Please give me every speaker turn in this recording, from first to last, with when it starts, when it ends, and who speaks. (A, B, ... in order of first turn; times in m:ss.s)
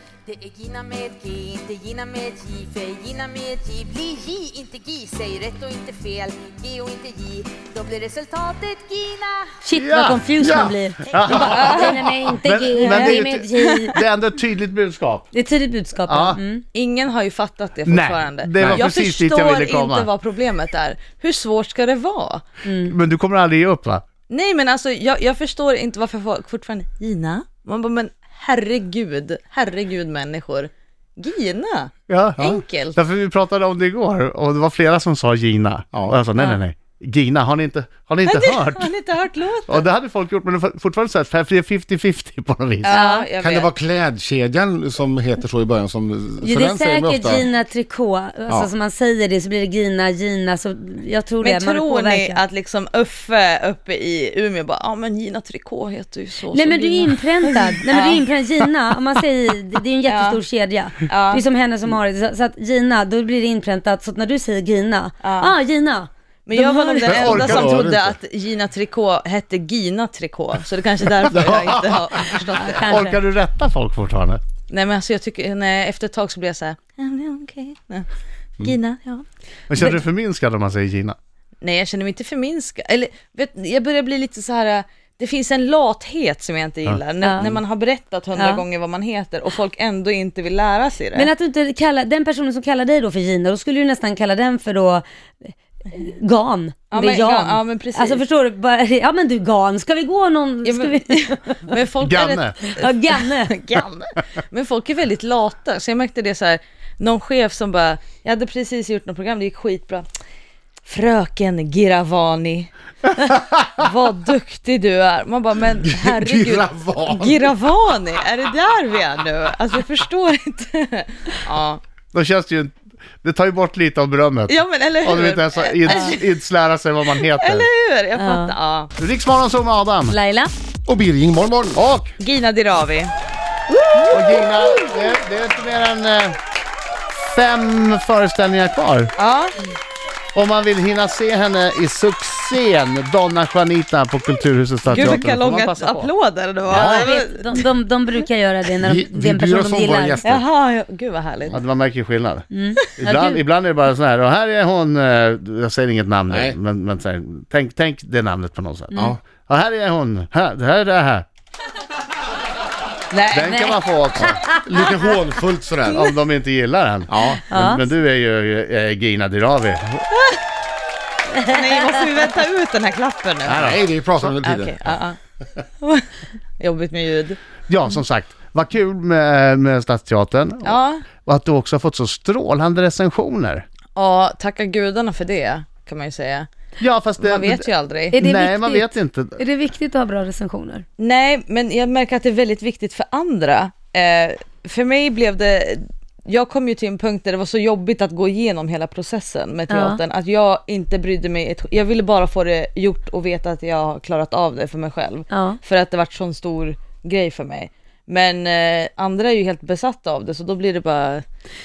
0:00.2-0:09.5 A
0:09.6-0:14.0 B
0:09.8-0:15.3 C
0:11.5-0:11.9 D
0:12.8-0:13.2 D
0:15.3-0:16.6 B
0:16.1-0:16.4 C
0:16.7-0:22.4 D
0:17.8-0:20.1 C
0:18.6-0:18.8 E
0:22.6-0:22.9 B
0:22.8-0:24.0 C
0:24.3-0:33.0 D
0:32.1-0:38.9 C
0:38.2-0:39.8 D
0:39.7-0:43.0 C
0:42.8-0:43.7 D
0:42.9-0:43.2 B
0:43.4-0:47.5 E
0:46.4-0:52.4 B
0:51.4-0:58.6 D
0:56.5-1:07.6 B
1:00.0-1:00.4 D
1:01.0-1:01.4 D
1:05.2-1:05.5 D
1:06.5-1:13.0 D
1:07.1-1:07.7 C
1:07.1-1:08.2 E
1:11.3-1:12.0 E
1:12.4-1:13.2 B
1:12.9-1:14.4 C
1:14.7-1:18.1 D
1:18.6-1:19.2 D
1:19.7-1:21.2 C
1:21.6-1:31.3 D
1:27.2-1:27.5 B
1:28.4-1:28.6 B
1:31.1-1:41.6 B
1:36.9-1:38.2 D
1:40.6-1:50.1 D
1:42.0-1:42.6 C
1:42.7-1:43.5 B
1:50.8-2:01.8 D
1:55.8-1:57.5 E
2:02.1-2:07.6 C
2:04.5-2:06.3 D
2:07.1-2:08.9 D
2:08.2-2:08.5 B
2:09.0-2:10.2 C
2:10.1-2:10.5 B
2:10.8-2:11.8 E
2:11.7-2:12.1 C
2:12.2-2:13.1 D
2:13.9-2:14.8 D
2:14.1-2:16.4 C
2:17.2-2:19.1 C
2:19.2-2:19.6 D
2:20.3-2:26.1 C
2:24.9-2:27.7 D
2:26.7-2:27.1 E
2:26.7-2:30.2 B
2:28.8-2:30.4 E
2:30.2-2:31.6 D
2:31.5-2:41.2 C
2:32.5-2:33.4 B
2:36.3-2:36.6 E
2:38.9-2:39.2 B
2:43.1-2:43.6 D
2:43.3-2:44.4 C
2:43.4-2:44.6 B
2:44.5-2:46.1 E
2:45.9-2:50.0 C
2:47.1-2:47.4 E
2:47.5-2:47.8 B
2:51.4-2:53.7 D
2:53.4-2:54.3 C
2:53.5-2:54.9 E
2:54.4-2:55.2 D
2:55.8-2:56.1 D
2:56.6-2:57.4 D
2:57.7-3:03.6 C
3:00.6-3:01.0 D
3:04.0-3:06.5 D
3:06.8-3:09.4 C
3:07.2-3:08.2 D
3:08.1-3:10.8 B
3:11.0-3:31.2 D
3:19.7-3:20.0 B
3:25.3-3:25.6 B